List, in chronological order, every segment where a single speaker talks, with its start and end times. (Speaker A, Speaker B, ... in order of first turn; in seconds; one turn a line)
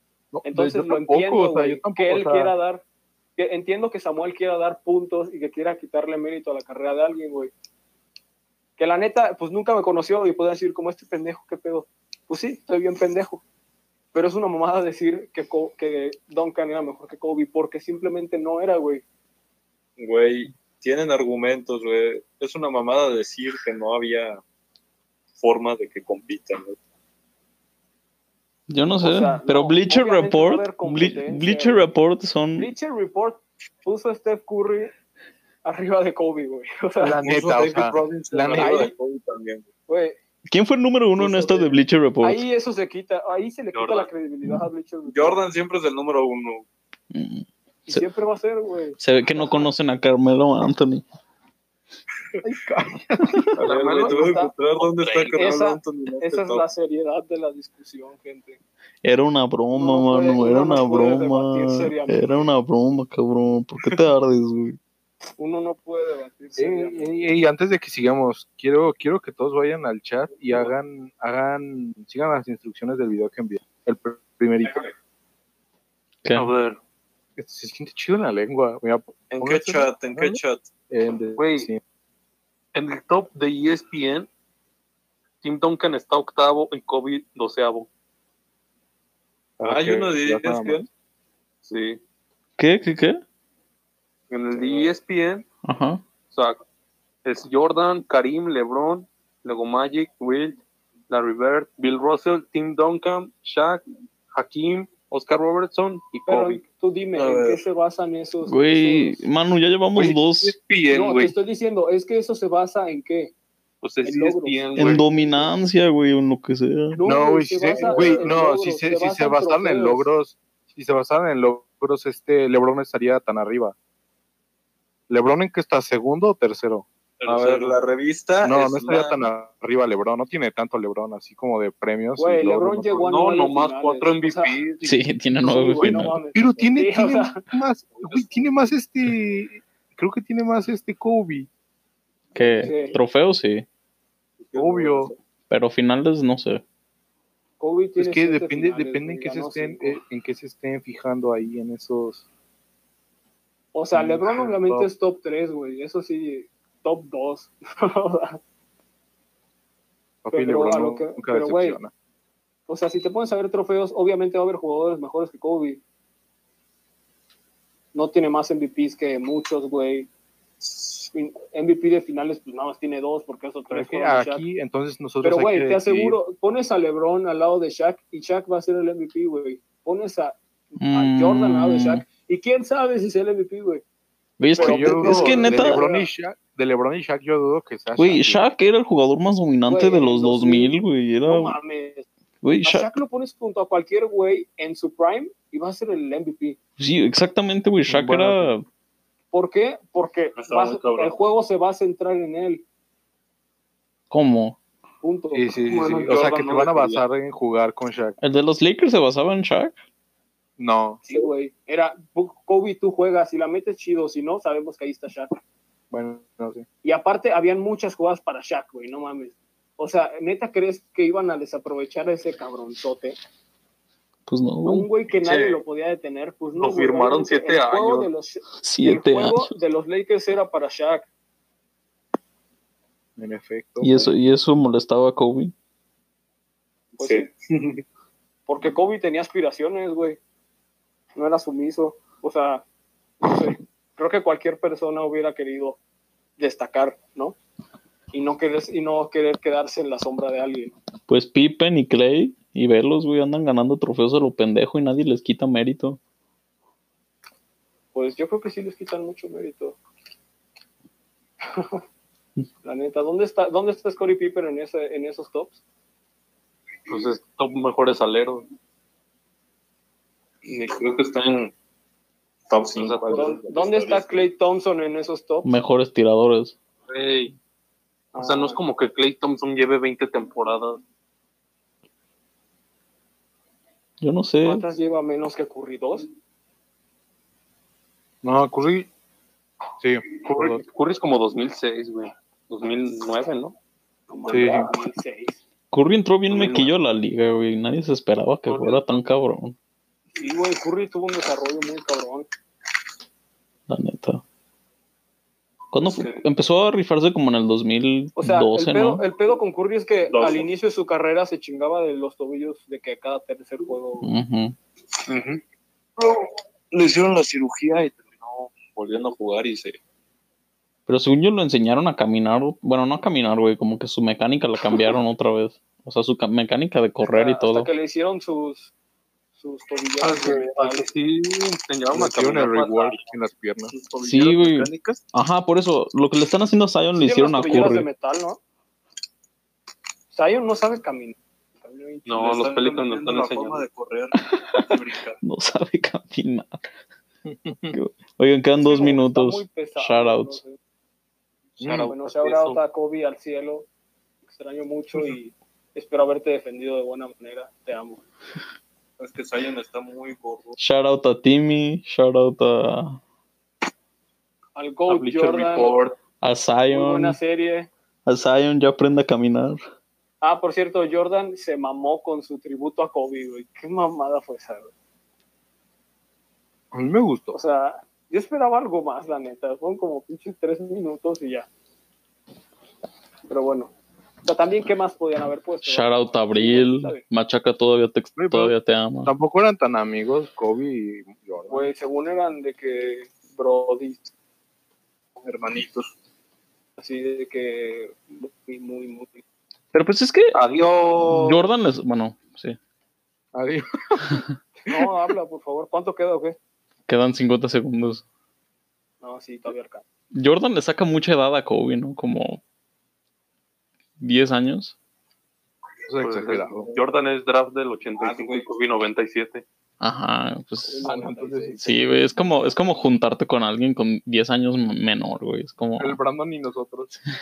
Speaker A: 0.3-2.5
Speaker B: 0.5-2.8
Speaker B: 3.4-7.5
Speaker B: 8.8-13.4
Speaker B: 14.1-19.0
Speaker C: 20.0-24.4
Speaker C: 25.4-26.8
Speaker D: 28.7-32.7
Speaker B: 29.0-31.9
Speaker B: 32.6-34.9
Speaker B: 35.6-37.2
Speaker A: 37.0-38.9
Speaker C: 37.2-39.7
Speaker B: 38.5-38.9
Speaker B: 39.9-40.2
Speaker D: 40.5-42.4
Speaker B: 41.2-45.4
Speaker E: 43.7-44.1
Speaker C: 45.1-46.7
Speaker D: 47.1-48.0
Speaker B: 47.9-49.0
Speaker D: 49.0-51.0
Speaker A: 52.4-53.6
Speaker C: 53.5-56.7
Speaker E: 53.6-55.5
Speaker B: 54.0-54.5
Speaker B: 55.3-58.6
Speaker D: 59.0-64.8
Speaker B: 59.8-62.4
Speaker B: 65.4-67.2
Speaker A: 66.6-74.9
Speaker D: 76.2-76.5
Speaker E: 76.3-76.8
Speaker A: 77.4-80.4
Speaker C: 79.3-80.7
Speaker A: 80.9-81.8
Speaker E: 81.4-81.7
Speaker E: 82.8-84.3
Speaker E: 85.4-87.9
Speaker A: 89.6-90.8
Speaker C: 89.6-90.9
Speaker E: 91.7-92.0
Speaker D: 92.6-93.2
Speaker E: 94.3-95.5
Speaker C: 94.5-94.9
Speaker D: 95.7-96.0
Speaker E: 96.3-96.6
Speaker E: 97.2-103.8
Speaker E: 104.3-106.6
Speaker B: 106.3-109.2
Speaker C: 107.2-107.6
Speaker D: 108.5-110.5
Speaker E: 110.0-111.4
Speaker B: 110.9-113.3
Speaker E: 113.8-115.0
Speaker B: 114.0-115.5
Speaker D: 114.8-117.0
Speaker B: 116.9-120.1
Speaker A: 117.0-123.8
Speaker C: 117.8-118.4
Speaker A: 125.1-126.9
Speaker E: 127.2-127.7
Speaker C: 127.3-129.3
Speaker A: 128.4-133.1
Speaker B: 132.2-134.6
Speaker E: 133.1-135.5
Speaker D: 134.8-136.2
Speaker B: 135.4-137.4
Speaker A: 136.3-141.5
Speaker D: 142.3-143.7
Speaker B: 142.4-143.0
Speaker C: 144.4-145.2
Speaker A: 144.6-145.1
Speaker D: 145.5-146.6
Speaker B: 147.6-150.0
Speaker A: 148.0-152.3
Speaker B: 153.7-158.4
Speaker A: 153.9-154.9
Speaker A: 160.2-161.9
Speaker B: 160.3-161.8
Speaker B: 162.7-165.8
Speaker B: 167.9-170.1
Speaker B: 170.8-174.4
Speaker A: 173.7-176.2
Speaker B: 175.2-183.8
Speaker D: 180.8-182.0
Speaker D: 184.4-185.8
Speaker A: 184.6-188.4
Speaker B: 184.6-186.1
Speaker C: 185.0-185.3
Speaker D: 188.0-191.6
Speaker B: 189.7-190.8
Speaker B: 191.3-192.1
Speaker D: 192.4-192.9
Speaker B: 192.6-196.6
Speaker D: 196.8-198.6
Speaker A: 197.9-198.5
Speaker B: 199.3-202.6
Speaker C: 200.4-201.1
Speaker D: 204.1-204.6
Speaker B: 205.0-205.4
Speaker A: 205.3-208.2
Speaker E: 205.7-207.1
Speaker D: 208.2-209.8
Speaker A: 210.6-211.0
Speaker B: 211.0-215.4
Speaker A: 215.9-216.7
Speaker B: 216.8-223.2
Speaker D: 224.3-224.9
Speaker B: 224.7-231.1
Speaker E: 225.2-225.5
Speaker E: 226.6-228.1
Speaker D: 228.6-229.5
Speaker A: 233.2-234.1
Speaker D: 233.8-235.5
Speaker B: 237.0-237.3
Speaker C: 237.0-237.8
Speaker B: 238.5-240.2
Speaker B: 241.2-242.7
Speaker B: 243.2-245.8
Speaker B: 246.4-247.4
Speaker B: 248.1-250.8
Speaker D: 251.1-256.0
Speaker B: 257.9-259.8
Speaker B: 261.5-261.8
Speaker B: 262.6-265.6
Speaker E: 266.9-268.4
Speaker C: 270.4-271.5
Speaker C: 272.5-274.3
Speaker E: 272.8-273.3
Speaker B: 273.1-275.5
Speaker D: 275.4-276.6
Speaker E: 276.9-277.3
Speaker B: 278.1-278.6
Speaker E: 278.2-280.8
Speaker D: 284.0-284.6
Speaker B: 284.4-286.1
Speaker A: 288.2-288.9
Speaker A: 289.8-290.6
Speaker E: 290.2-293.6
Speaker B: 294.1-295.4
Speaker C: 294.3-294.6
Speaker A: 294.3-294.7
Speaker D: 295.7-299.6
Speaker E: 296.3-296.7
Speaker E: 298.5-299.0
Speaker B: 300.1-302.3
Speaker D: 303.7-304.2
Speaker D: 305.7-309.0
Speaker C: 305.8-306.2
Speaker B: 308.2-314.1
Speaker C: 310.1-310.5
Speaker D: 314.0-314.6
Speaker C: 315.1-315.4
Speaker C: 316.0-319.8
Speaker D: 320.9-327.7
Speaker B: 327.1-328.7
Speaker B: 329.4-330.9
Speaker E: 330.0-333.1
Speaker A: 331.9-333.7
Speaker C: 333.8-335.0
Speaker D: 334.0-337.9
Speaker B: 337.0-338.4
Speaker B: 340.1-342.1
Speaker E: 342.1-343.6
Speaker C: 342.1-345.2
Speaker D: 344.2-346.6
Speaker A: 347.3-347.8
Speaker D: 347.7-350.4
Speaker B: 348.6-350.6
Speaker A: 351.6-351.9
Speaker E: 351.6-352.6
Speaker B: 351.9-353.7
Speaker B: 354.2-358.0
Speaker C: 359.0-360.6
Speaker D: 360.6-363.0
Speaker B: 364.6-365.8
Speaker E: 364.9-365.9
Speaker D: 366.2-367.2
Speaker B: 366.7-367.7
Speaker D: 368.1-369.6
Speaker B: 370.2-374.7
Speaker A: 376.7-377.4
Speaker B: 377.3-381.5
Speaker B: 383.3-383.7
Speaker B: 384.2-387.0
Speaker D: 385.6-389.1
Speaker A: 388.2-388.5
Speaker A: 389.1-391.7
Speaker B: 391.5-394.1
Speaker C: 395.2-395.9
Speaker B: 396.8-399.2
Speaker D: 399.7-400.4
Speaker E: 400.3-401.4
Speaker D: 401.1-402.6
Speaker A: 403.4-404.2
Speaker B: 404.6-406.4
Speaker D: 406.9-408.0
Speaker B: 409.0-409.8
Speaker D: 410.2-412.4
Speaker D: 414.0-414.8
Speaker A: 415.9-416.7
Speaker E: 416.0-419.4
Speaker C: 418.0-418.5
Speaker D: 419.8-420.9
Speaker B: 420.7-421.6
Speaker A: 420.8-421.9
Speaker D: 421.6-426.0
Speaker A: 425.8-426.9